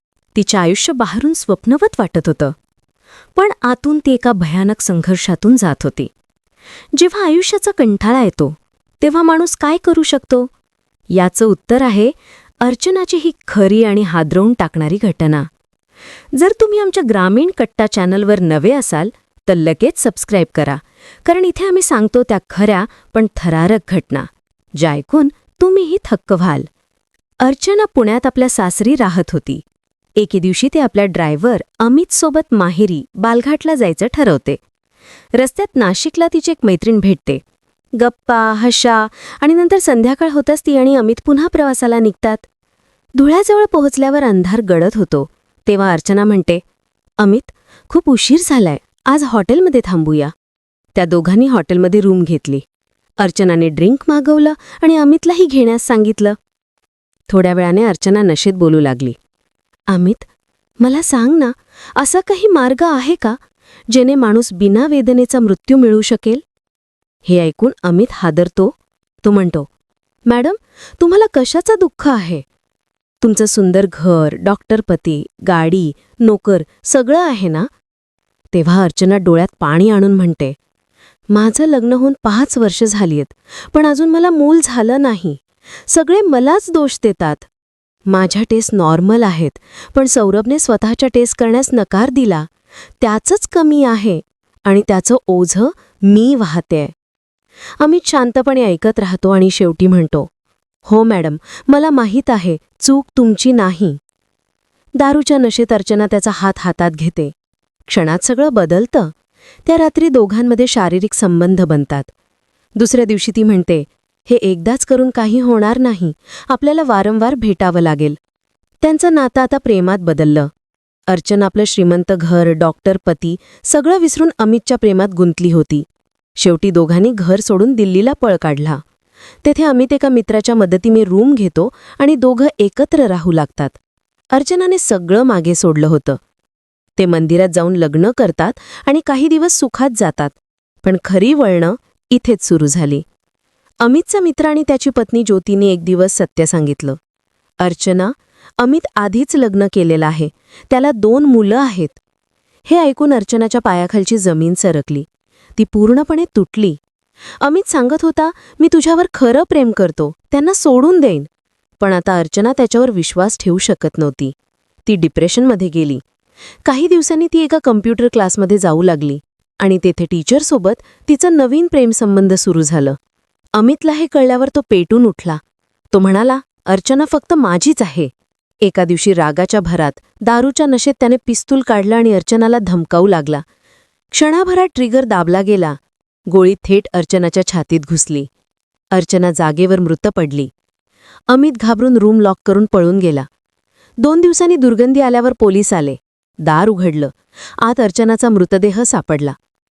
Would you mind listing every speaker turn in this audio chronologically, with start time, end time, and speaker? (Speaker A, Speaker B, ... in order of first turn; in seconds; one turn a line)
Speaker A: 0.3-2.5
Speaker A: 3.4-6.1
Speaker A: 6.9-10.5
Speaker A: 11.1-15.5
Speaker A: 16.3-26.7
Speaker A: 27.4-29.6
Speaker A: 30.2-34.6
Speaker A: 35.4-37.4
Speaker A: 38.0-42.5
Speaker A: 43.2-46.6
Speaker A: 47.2-50.3
Speaker A: 50.9-52.6
Speaker A: 53.2-56.4
Speaker A: 57.3-59.2
Speaker A: 59.9-60.3
Speaker A: 60.8-63.4
Speaker A: 63.9-66.4
Speaker A: 67.2-69.7
Speaker A: 70.3-72.5
Speaker A: 73.2-77.7
Speaker A: 78.5-80.6
Speaker A: 81.3-87.5
Speaker A: 88.1-92.5
Speaker A: 93.0-96.9
Speaker A: 97.8-100.3
Speaker A: 100.8-104.0
Speaker A: 105.0-107.3
Speaker A: 107.9-109.1
Speaker A: 109.7-112.1
Speaker A: 112.8-118.2
Speaker A: 118.8-120.5
Speaker A: 121.1-125.9
Speaker A: 126.4-128.8
Speaker A: 129.4-133.8
Speaker A: 134.3-136.2
Speaker A: 137.0-143.1
Speaker A: 143.8-147.0
Speaker A: 147.6-152.0
Speaker A: 152.7-156.8
Speaker A: 157.4-161.3
Speaker A: 161.8-164.3
Speaker A: 164.9-166.0
Speaker A: 166.7-173.0
Speaker A: 173.5-175.4
Speaker A: 175.9-178.1
Speaker A: 178.6-183.4
Speaker A: 184.1-185.8
Speaker A: 186.3-188.3
Speaker A: 188.9-190.5
Speaker A: 191.3-193.3
Speaker A: 194.0-199.3